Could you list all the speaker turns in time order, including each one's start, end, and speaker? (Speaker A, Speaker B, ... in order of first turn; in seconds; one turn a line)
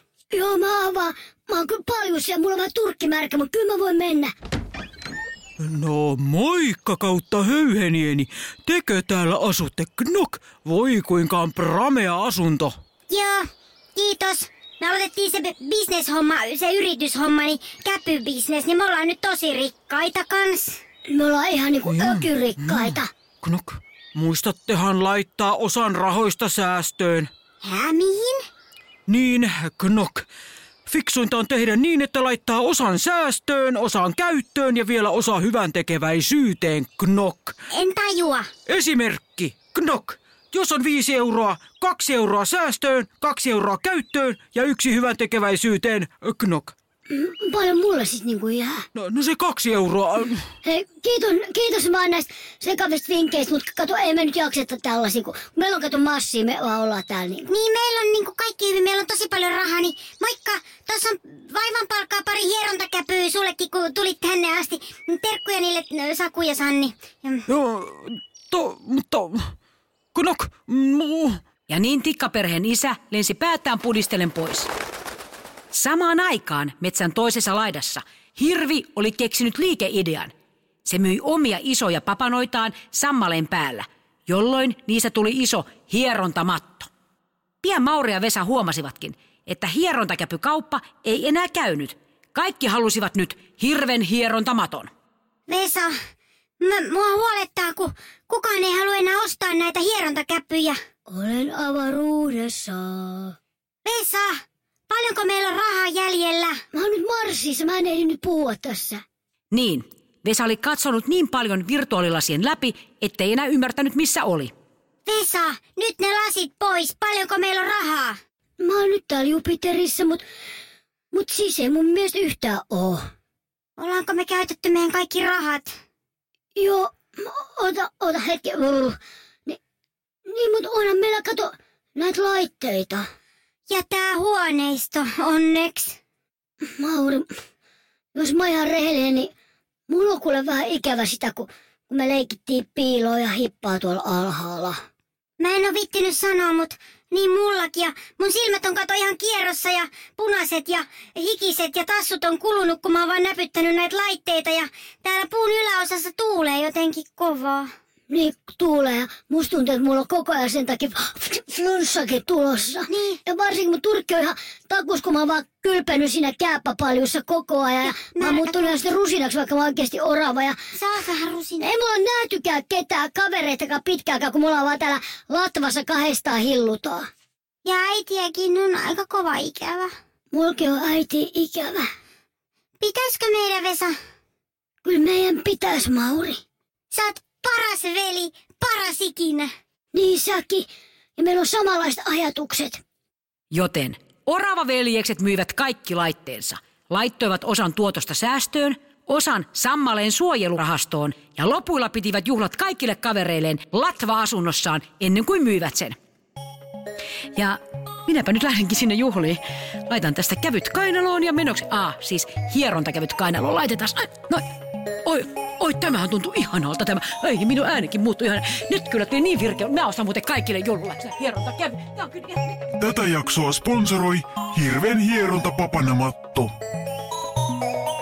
Speaker A: 0.3-4.3
Speaker B: 5.6-12.8
Speaker C: 13.1-13.4
Speaker C: 14.0-20.8
Speaker A: 21.1-23.1
Speaker B: 21.9-27.3
Speaker C: 27.6-28.4
Speaker B: 29.1-30.3
Speaker B: 30.9-37.5
Speaker C: 37.7-38.5
Speaker B: 38.7-46.8
Speaker A: 47.1-48.9
Speaker B: 49.0-50.5
Speaker A: 50.6-57.5
Speaker C: 57.5-67.5
Speaker B: 67.5-69.5
Speaker B: 70.1-71.4
Speaker D: 71.7-74.7
Speaker D: 75.7-80.3
Speaker D: 80.8-86.9
Speaker D: 87.6-94.9
Speaker C: 95.5-95.9
Speaker C: 96.6-100.8
Speaker A: 101.1-103.3
Speaker C: 103.8-106.6
Speaker A: 106.7-109.0
Speaker D: 109.5-114.5
Speaker C: 115.1-118.2
Speaker A: 118.6-120.2
Speaker A: 121.1-123.0
Speaker C: 123.8-125.7
Speaker A: 126.6-128.9
Speaker A: 130.3-133.1
Speaker C: 133.7-136.0
Speaker A: 136.8-137.3
Speaker A: 138.2-139.3
Speaker A: 139.9-144.8
Speaker C: 145.4-157.7
Speaker A: 158.1-170.6
Speaker C: 162.9-163.2
Speaker C: 167.8-168.8
Speaker C: 170.7-171.7
Speaker A: 171.6-177.1
Speaker C: 177.7-179.9
Speaker A: 180.3-181.9
Speaker C: 182.8-183.9
Speaker A: 184.8-186.4
Speaker C: 186.9-189.5
Speaker A: 189.9-192.8
Speaker D: 193.5-206.0
Speaker D: 207.3-214.5
Speaker D: 215.0-222.7
Speaker E: 222.8-226.6